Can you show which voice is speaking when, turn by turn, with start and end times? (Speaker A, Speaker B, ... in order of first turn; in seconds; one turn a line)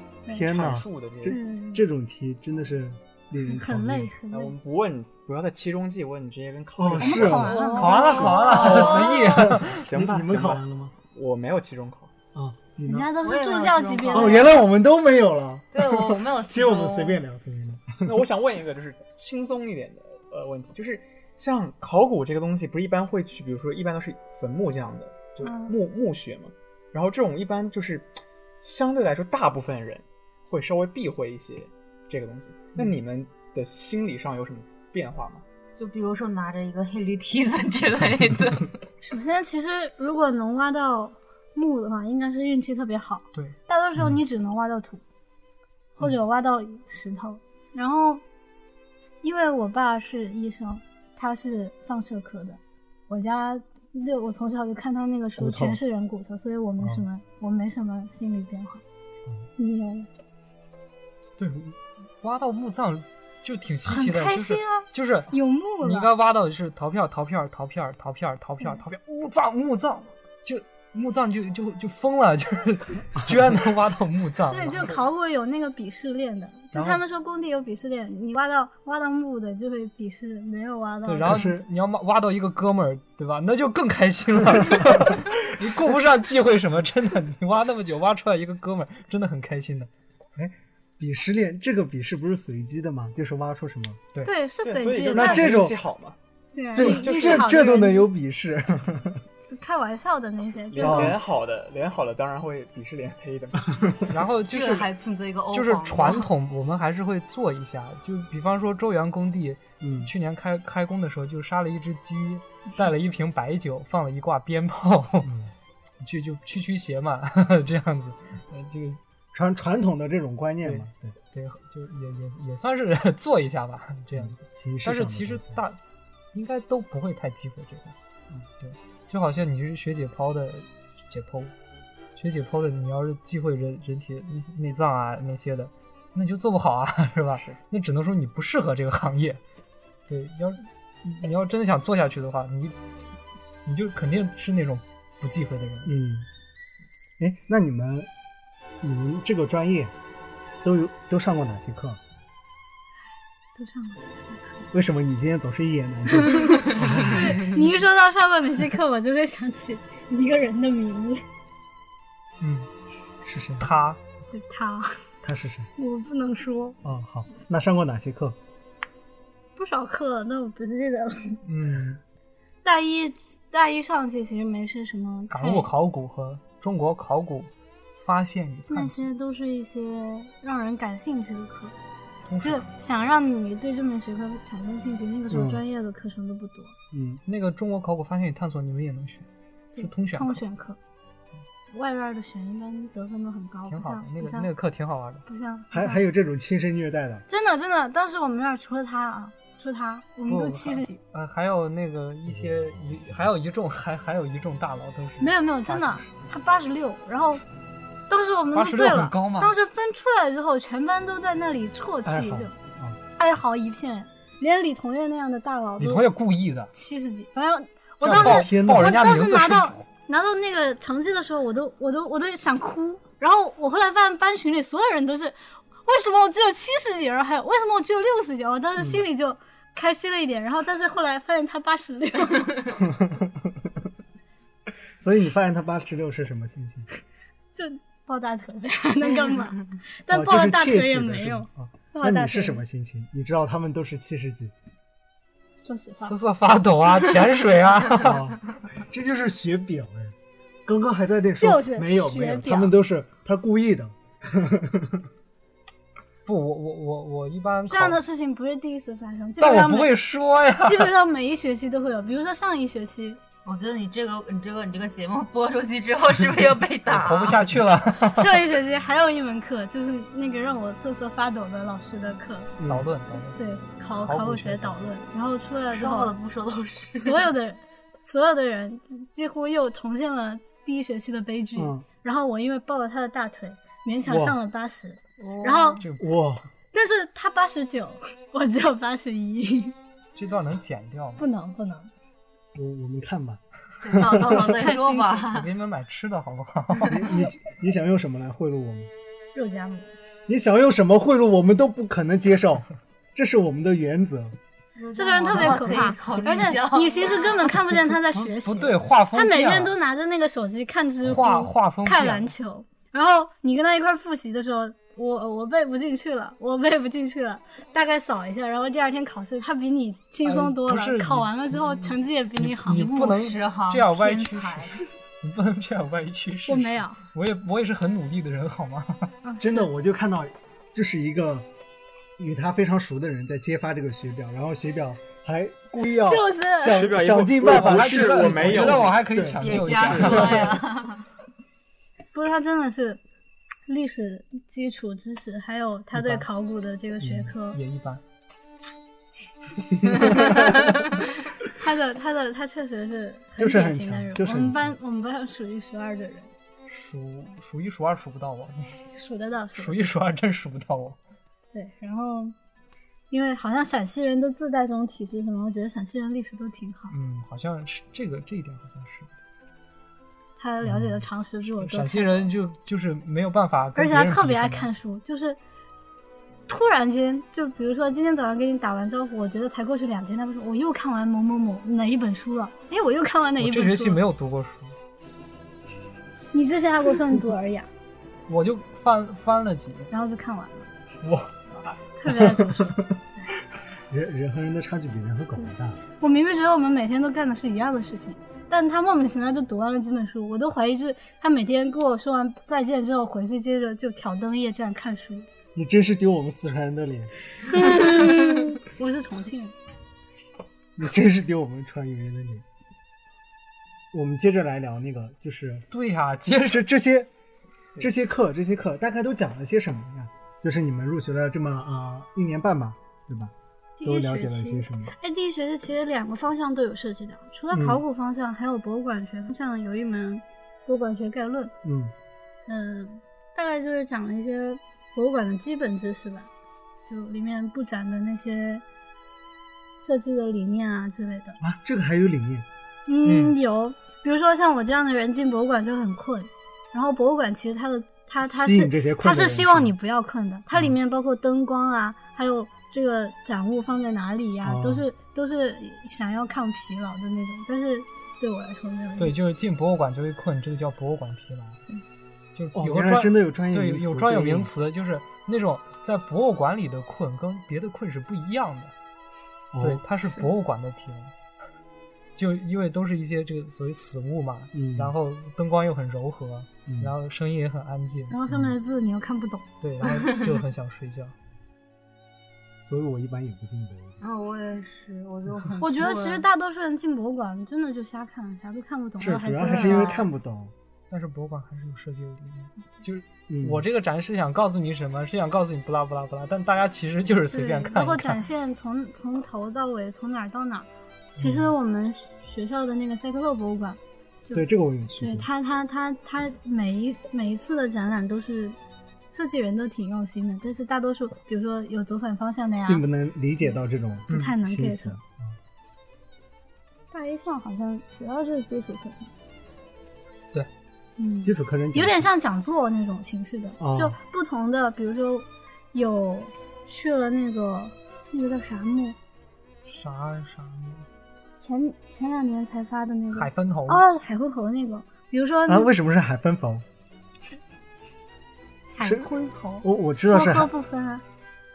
Speaker A: 0.3-4.1
Speaker B: 0.4-1.4
Speaker C: 1.3-1.8
Speaker C: 3.5-4.5
Speaker B: 4.3-7.5
Speaker A: 6.8-8.5
Speaker C: 7.0-8.5
Speaker D: 7.5-9.5
Speaker E: 7.7-9.8
Speaker B: 8.6-12.1
Speaker A: 9.3-10.9
Speaker A: 12.3-13.1
Speaker C: 12.9-14.6
Speaker D: 13.2-14.6
Speaker A: 14.1-18.2
Speaker D: 15.7-17.2
Speaker B: 18.1-35.4
Speaker C: 25.4-25.8
Speaker D: 35.8-38.7
Speaker C: 39.0-45.0
Speaker C: 46.0-48.2
Speaker C: 49.2-58.8
Speaker A: 55.4-55.8
Speaker C: 59.6-60.1
Speaker E: 61.4-65.3
Speaker C: 63.9-66.1
Speaker E: 65.8-74.9
Speaker C: 74.5-81.4
Speaker E: 76.7-77.0
Speaker E: 81.0-89.9
Speaker A: 81.2-81.6
Speaker A: 90.3-94.0
Speaker C: 94.2-95.5
Speaker B: 94.6-96.2
Speaker A: 95.1-95.8
Speaker C: 96.5-98.1
Speaker A: 96.8-99.2
Speaker C: 99.5-101.2
Speaker B: 100.7-104.1
Speaker A: 100.8-101.2
Speaker E: 104.1-104.9
Speaker D: 104.5-106.3
Speaker E: 105.5-115.3
Speaker A: 109.8-110.1
Speaker A: 115.2-115.5
Speaker E: 116.0-119.0
Speaker A: 119.3-121.2
Speaker E: 120.6-125.8
Speaker A: 124.2-125.6
Speaker E: 126.3-128.0
Speaker E: 128.6-131.5
Speaker E: 132.2-139.4
Speaker E: 140.1-142.8
Speaker E: 143.7-145.9
Speaker A: 145.8-146.3
Speaker A: 147.2-148.1
Speaker A: 148.8-149.9
Speaker A: 150.6-152.0
Speaker C: 153.6-154.7
Speaker A: 154.7-157.5
Speaker C: 156.2-161.2
Speaker E: 162.4-162.7
Speaker A: 163.2-163.7
Speaker E: 163.6-164.0
Speaker C: 164.3-165.0
Speaker A: 165.2-165.7
Speaker C: 165.8-166.8
Speaker A: 166.8-168.4
Speaker C: 169.6-171.4
Speaker E: 171.4-172.0
Speaker C: 172.6-175.7
Speaker E: 175.3-179.1
Speaker C: 178.7-181.8
Speaker E: 182.3-182.7
Speaker C: 182.4-186.8
Speaker A: 185.3-185.6
Speaker A: 186.9-187.2
Speaker E: 187.3-189.3
Speaker C: 189.8-190.8
Speaker E: 189.8-190.4
Speaker C: 191.7-194.5
Speaker E: 193.7-195.2
Speaker C: 195.3-196.0
Speaker A: 195.7-197.2
Speaker C: 197.3-201.0
Speaker E: 200.3-206.1
Speaker A: 202.3-203.2
Speaker C: 205.2-207.4
Speaker C: 208.1-212.5
Speaker E: 208.6-209.5
Speaker A: 212.1-213.0
Speaker C: 213.2-216.1
Speaker E: 215.8-216.7
Speaker C: 216.7-232.8
Speaker E: 218.0-219.8
Speaker A: 218.1-219.1
Speaker A: 228.8-229.0
Speaker A: 232.8-233.7
Speaker A: 235.0-236.9
Speaker C: 237.5-242.6
Speaker A: 240.1-244.5
Speaker C: 245.6-246.2
Speaker E: 246.0-248.2
Speaker A: 248.0-250.2
Speaker A: 250.7-255.1
Speaker C: 251.4-252.8
Speaker E: 256.3-258.0
Speaker C: 257.7-260.0
Speaker E: 259.4-260.9
Speaker C: 260.6-263.2
Speaker D: 263.4-267.5
Speaker E: 266.9-268.4
Speaker C: 268.1-272.5
Speaker A: 272.6-272.9
Speaker E: 272.6-273.4
Speaker C: 273.4-276.1
Speaker E: 274.0-274.9
Speaker D: 275.7-277.3
Speaker C: 277.0-285.8
Speaker A: 281.6-281.9
Speaker A: 284.1-284.4
Speaker D: 285.2-285.9
Speaker E: 285.8-286.1
Speaker A: 286.0-286.5
Speaker C: 286.7-289.8
Speaker E: 290.1-291.2
Speaker C: 291.2-291.9
Speaker A: 292.5-294.6
Speaker D: 293.8-295.5
Speaker C: 294.3-295.3
Speaker E: 295.3-297.2
Speaker A: 296.9-298.9
Speaker C: 299.3-299.9
Speaker A: 300.3-304.4
Speaker D: 304.8-307.6
Speaker C: 304.9-323.0
Speaker E: 308.2-309.8
Speaker E: 311.0-312.3
Speaker E: 320.2-321.6
Speaker E: 322.4-329.1
Speaker D: 322.6-324.8
Speaker C: 326.5-327.0
Speaker C: 329.2-329.7
Speaker A: 329.4-331.5
Speaker A: 332.2-340.6
Speaker C: 335.9-336.9
Speaker B: 336.7-339.0
Speaker E: 337.4-340.6
Speaker D: 339.4-341.1
Speaker C: 342.1-343.0
Speaker C: 343.7-347.6
Speaker E: 345.9-346.2
Speaker A: 347.0-347.3
Speaker E: 347.5-348.0
Speaker A: 349.8-350.3
Speaker C: 351.4-356.3
Speaker A: 353.4-354.7
Speaker E: 356.7-358.9
Speaker C: 358.9-359.8
Speaker E: 359.6-361.0
Speaker C: 361.5-362.4
Speaker C: 363.1-366.9
Speaker E: 366.9-369.1
Speaker C: 370.4-372.3
Speaker A: 370.6-371.0
Speaker E: 371.5-374.7
Speaker C: 373.8-375.4
Speaker C: 376.5-384.0
Speaker E: 383.4-384.8
Speaker C: 386.3-387.7
Speaker E: 388.3-389.9
Speaker C: 389.9-390.7
Speaker C: 391.9-392.8
Speaker A: 392.1-392.9
Speaker A: 393.9-395.8
Speaker C: 396.0-405.3
Speaker A: 405.6-407.1
Speaker C: 407.4-409.6
Speaker A: 410.8-412.4
Speaker A: 413.9-415.7
Speaker E: 415.7-416.7
Speaker A: 416.4-417.1
Speaker A: 417.8-424.9
Speaker C: 423.8-431.5
Speaker A: 427.5-427.8
Speaker A: 431.6-431.9
Speaker C: 432.5-436.3
Speaker C: 436.9-438.6
Speaker C: 439.8-441.4
Speaker A: 441.4-442.5
Speaker C: 442.9-459.1
Speaker E: 443.1-443.4
Speaker A: 448.2-449.7
Speaker A: 454.4-454.9
Speaker E: 459.0-461.6
Speaker E: 462.4-468.7
Speaker A: 462.6-464.5
Speaker A: 469.5-469.8
Speaker E: 469.6-471.1
Speaker E: 472.2-478.2
Speaker A: 474.5-474.9
Speaker A: 476.7-476.9
Speaker C: 478.1-479.5
Speaker E: 479.6-481.1
Speaker A: 482.6-484.0
Speaker D: 484.0-486.2
Speaker C: 485.6-490.1
Speaker A: 489.0-490.5
Speaker E: 490.9-498.2
Speaker A: 493.3-493.6
Speaker C: 497.3-504.4
Speaker A: 501.2-501.5
Speaker A: 504.3-505.3
Speaker C: 505.0-508.6
Speaker C: 509.1-512.8
Speaker A: 512.7-515.4
Speaker E: 514.1-514.3
Speaker C: 514.1-515.0
Speaker C: 516.9-519.1
Speaker C: 521.0-529.0
Speaker A: 521.2-522.1
Speaker A: 523.6-524.0
Speaker E: 529.6-530.9
Speaker C: 531.4-535.7
Speaker E: 533.1-533.8
Speaker A: 535.5-536.6
Speaker C: 538.7-541.0
Speaker A: 538.8-539.1
Speaker A: 539.6-540.5